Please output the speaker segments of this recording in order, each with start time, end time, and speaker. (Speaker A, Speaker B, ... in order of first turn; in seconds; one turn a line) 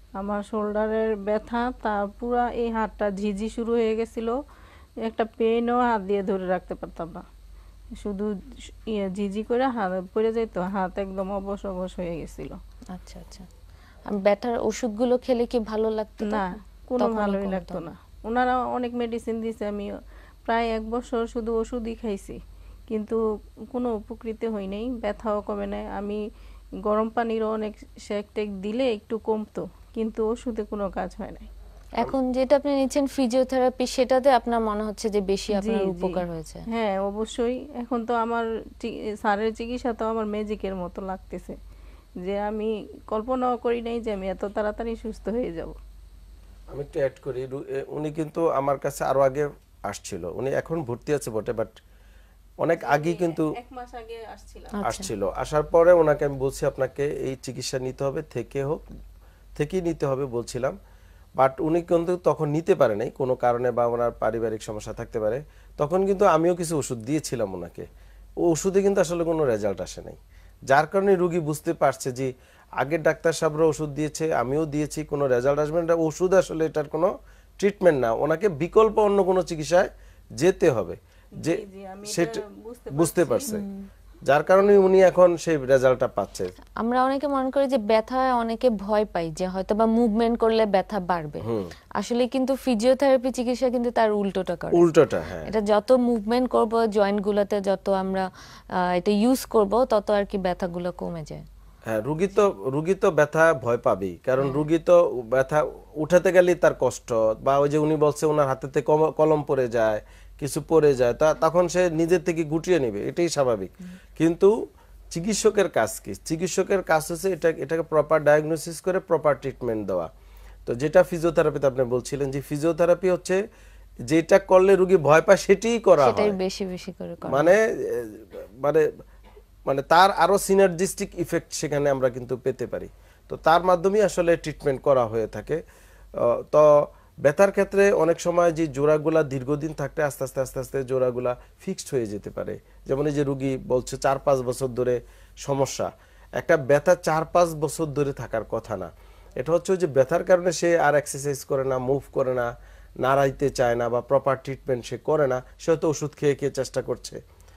Speaker A: 0.2-4.3
Speaker A: 5.0-7.2
Speaker A: 8.0-12.6
Speaker B: 12.9-13.5
Speaker B: 14.1-17.8
Speaker A: 16.3-19.9
Speaker A: 20.5-22.4
Speaker A: 22.9-23.2
Speaker A: 23.7-26.2
Speaker A: 26.8-31.5
Speaker B: 32.0-36.6
Speaker A: 35.5-36.2
Speaker A: 36.7-41.6
Speaker A: 42.2-45.8
Speaker C: 46.7-51.8
Speaker C: 52.6-53.5
Speaker A: 52.8-54.8
Speaker B: 54.8-55.1
Speaker C: 54.9-58.8
Speaker C: 59.6-60.8
Speaker C: 61.4-67.9
Speaker C: 68.4-79.9
Speaker C: 80.4-83.6
Speaker A: 81.4-83.6
Speaker C: 84.2-86.5
Speaker B: 86.8-91.5
Speaker C: 91.5-91.7
Speaker B: 92.0-94.8
Speaker C: 94.7-95.5
Speaker B: 95.4-101.5
Speaker C: 101.9-114.5
Speaker C: 115.1-120.1
Speaker C: 120.7-123.4
Speaker C: 124.1-126.4
Speaker B: 126.0-127.5
Speaker C: 127.3-128.8
Speaker C: 129.7-135.6
Speaker C: 136.2-136.7
Speaker C: 137.2-152.5
Speaker C: 153.0-157.2